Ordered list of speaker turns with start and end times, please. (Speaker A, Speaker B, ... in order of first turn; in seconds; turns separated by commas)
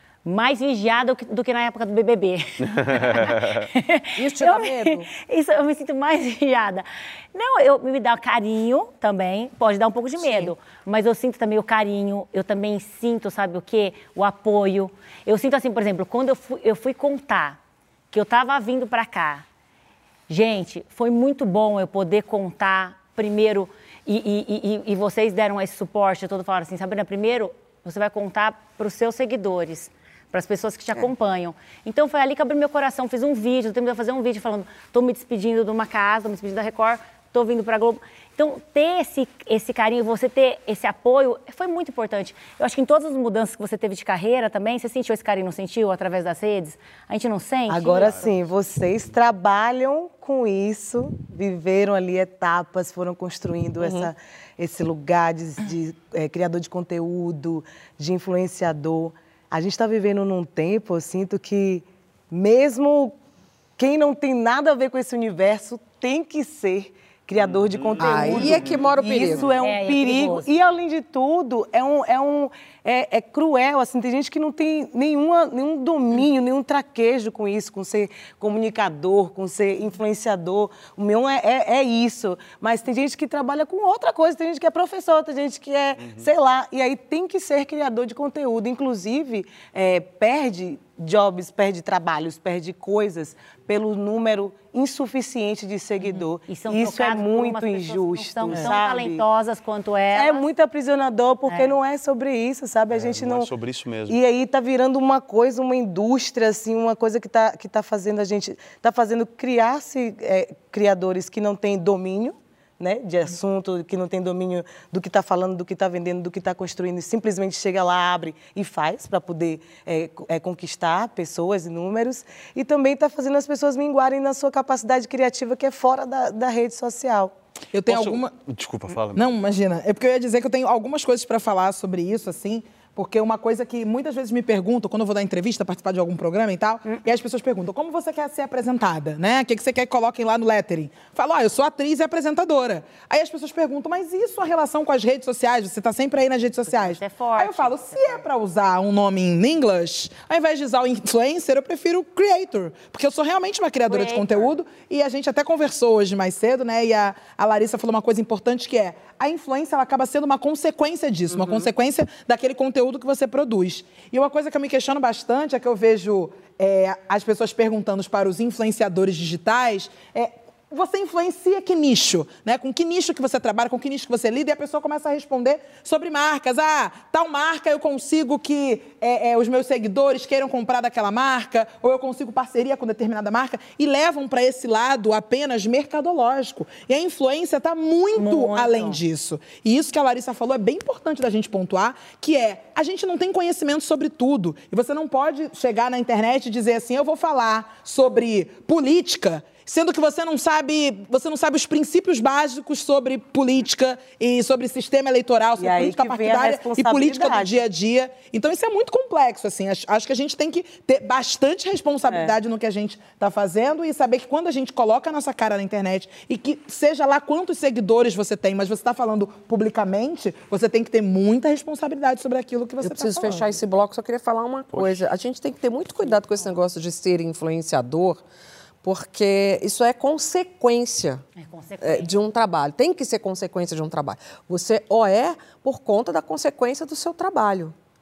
Speaker A: 0.2-17.6, Speaker B: 2.6-3.7, Speaker C: 4.2-5.1, Speaker C: 10.2-10.5, Speaker A: 18.1-19.4, Speaker A: 20.3-48.2, Speaker D: 47.7-63.1, Speaker B: 48.0-48.5, Speaker C: 53.8-54.1, Speaker D: 63.8-99.2, Speaker B: 67.3-69.5, Speaker C: 68.0-69.4, Speaker E: 68.2-69.4, Speaker A: 69.6-70.5, Speaker B: 86.0-86.3, Speaker A: 96.0-100.5, Speaker D: 100.1-103.5, Speaker A: 101.5-101.8, Speaker B: 102.9-104.2, Speaker D: 104.1-127.3, Speaker E: 127.7-128.3, Speaker B: 127.8-129.2, Speaker E: 129.1-223.5, Speaker A: 146.7-148.2, Speaker A: 153.9-154.5, Speaker A: 188.2-189.0, Speaker D: 205.6-207.6, Speaker D: 212.1-212.3, Speaker C: 222.8-228.2, Speaker B: 224.7-225.0, Speaker C: 228.8-231.2, Speaker A: 231.4-232.1, Speaker C: 231.8-237.7